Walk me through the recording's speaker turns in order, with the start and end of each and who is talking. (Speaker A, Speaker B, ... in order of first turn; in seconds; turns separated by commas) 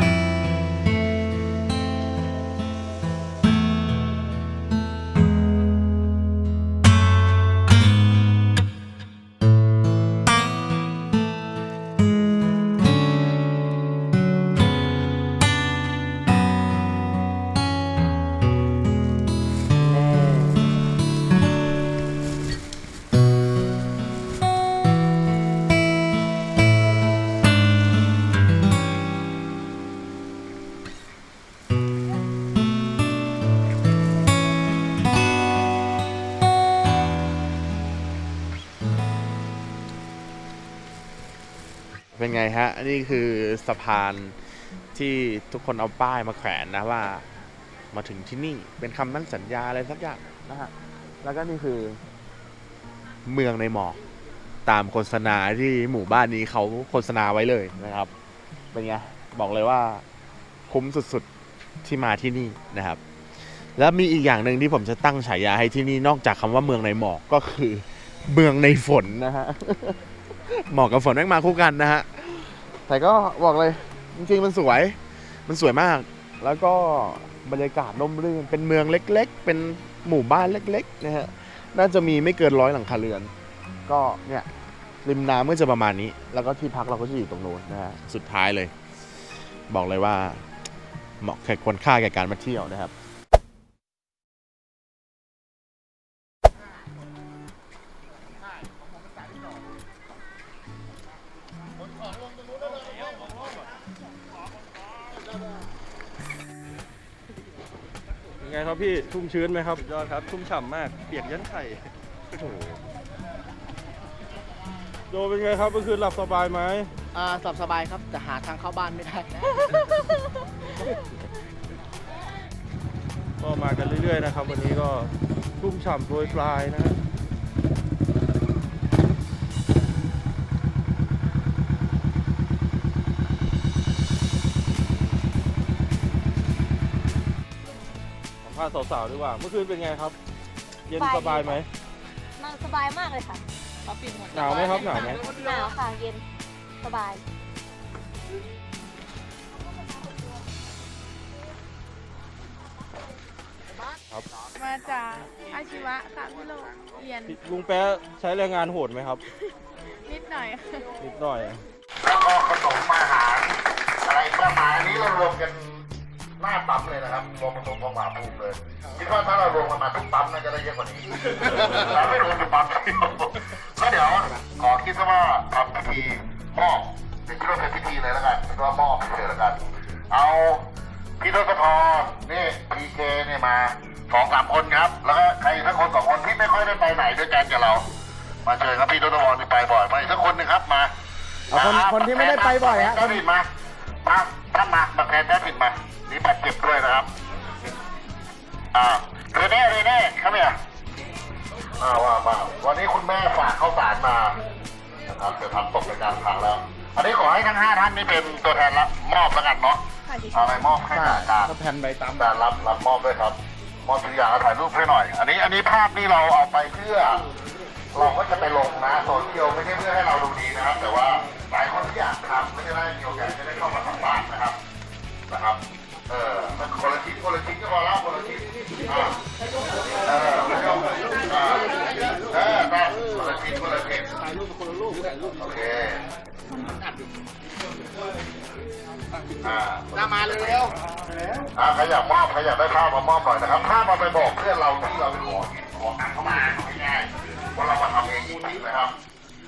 Speaker A: 19.8-20.8, Speaker A: 42.1-44.4, Speaker A: 45.0-47.2, Speaker A: 47.9-52.0, Speaker A: 53.2-54.0, Speaker A: 54.6-58.1, Speaker A: 58.7-60.0, Speaker A: 60.7-61.3, Speaker A: 61.8-63.0, Speaker A: 63.5-83.3, Speaker A: 83.9-84.5, Speaker A: 85.0-88.7, Speaker A: 89.7-90.5, Speaker A: 91.2-92.9, Speaker B: 108.4-111.9, Speaker A: 112.4-112.8, Speaker B: 115.1-116.9, Speaker C: 117.1-120.0, Speaker B: 123.4-127.0, Speaker B: 138.4-140.1, Speaker B: 140.9-141.7, Speaker D: 140.9-141.6, Speaker D: 142.4-143.4, Speaker B: 144.3-145.4, Speaker D: 145.3-146.2, Speaker D: 146.8-147.2, Speaker E: 154.5-157.3, Speaker B: 157.2-159.2, Speaker E: 160.1-160.9, Speaker B: 161.0-161.6, Speaker F: 162.0-165.9, Speaker F: 166.4-180.7, Speaker F: 181.2-187.9, Speaker F: 188.4-190.9, Speaker F: 191.5-193.5, Speaker A: 191.6-192.7, Speaker F: 194.0-197.1, Speaker F: 198.7-200.6, Speaker F: 201.8-204.4, Speaker F: 205.1-211.5, Speaker E: 210.1-210.8, Speaker A: 210.9-212.1, Speaker F: 212.2-217.2, Speaker F: 217.9-224.6, Speaker F: 225.3-229.2, Speaker F: 229.9-234.2, Speaker F: 235.3-236.0, Speaker F: 239.4-240.7, Speaker C: 240.1-240.7, Speaker F: 241.5-249.0